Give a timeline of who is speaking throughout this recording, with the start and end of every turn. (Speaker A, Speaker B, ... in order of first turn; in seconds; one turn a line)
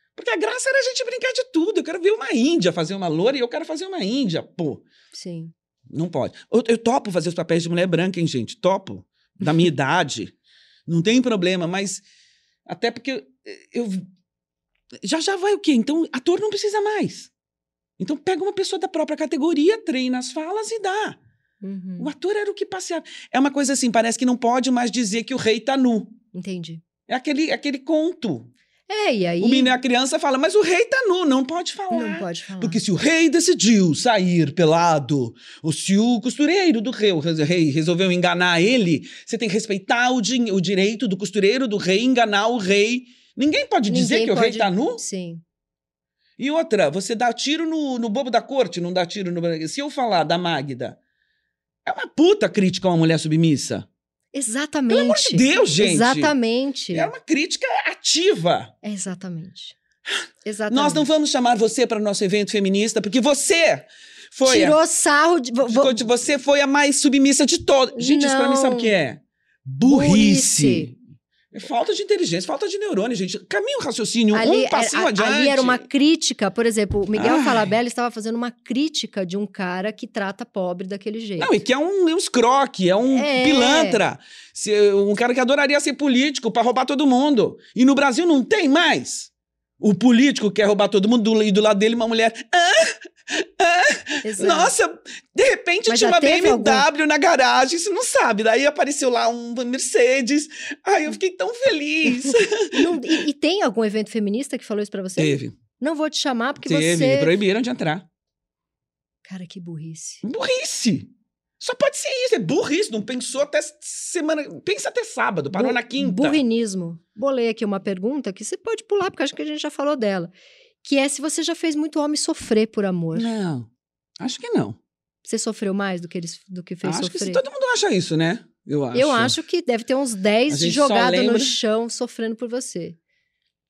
Speaker A: 0.2-4.8
Speaker B: 5.1-5.5
Speaker A: 5.9-10.3
Speaker A: 10.9-12.0
Speaker A: 12.7-14.1
Speaker A: 15.0-17.3
Speaker A: 18.0-21.2
Speaker B: 21.6-22.1
Speaker A: 22.0-26.2
Speaker B: 26.3-26.8
Speaker A: 27.1-28.5
Speaker B: 28.9-29.7
Speaker A: 29.4-45.0
Speaker B: 31.9-32.8
Speaker B: 43.9-45.4
Speaker A: 46.4-51.0
Speaker A: 51.9-53.9
Speaker B: 54.3-57.1
Speaker A: 54.9-56.4
Speaker A: 56.9-58.7
Speaker B: 58.8-59.8
Speaker A: 60.1-64.8
Speaker B: 60.5-61.1
Speaker B: 64.5-66.0
Speaker A: 65.7-71.0
Speaker B: 68.0-69.0
Speaker B: 69.8-70.9
Speaker A: 71.5-75.8
Speaker B: 74.3-81.6
Speaker A: 77.2-77.7
Speaker A: 81.4-103.2
Speaker B: 83.1-84.0
Speaker B: 94.2-94.7
Speaker B: 95.9-96.9
Speaker B: 102.7-107.3
Speaker A: 105.2-105.6
Speaker A: 106.6-108.1
Speaker B: 109.2-110.2
Speaker A: 110.2-116.4
Speaker B: 115.5-120.3
Speaker B: 120.8-123.3
Speaker A: 123.1-124.8
Speaker B: 125.2-127.4
Speaker A: 126.8-129.4
Speaker B: 128.9-133.0
Speaker A: 130.5-131.6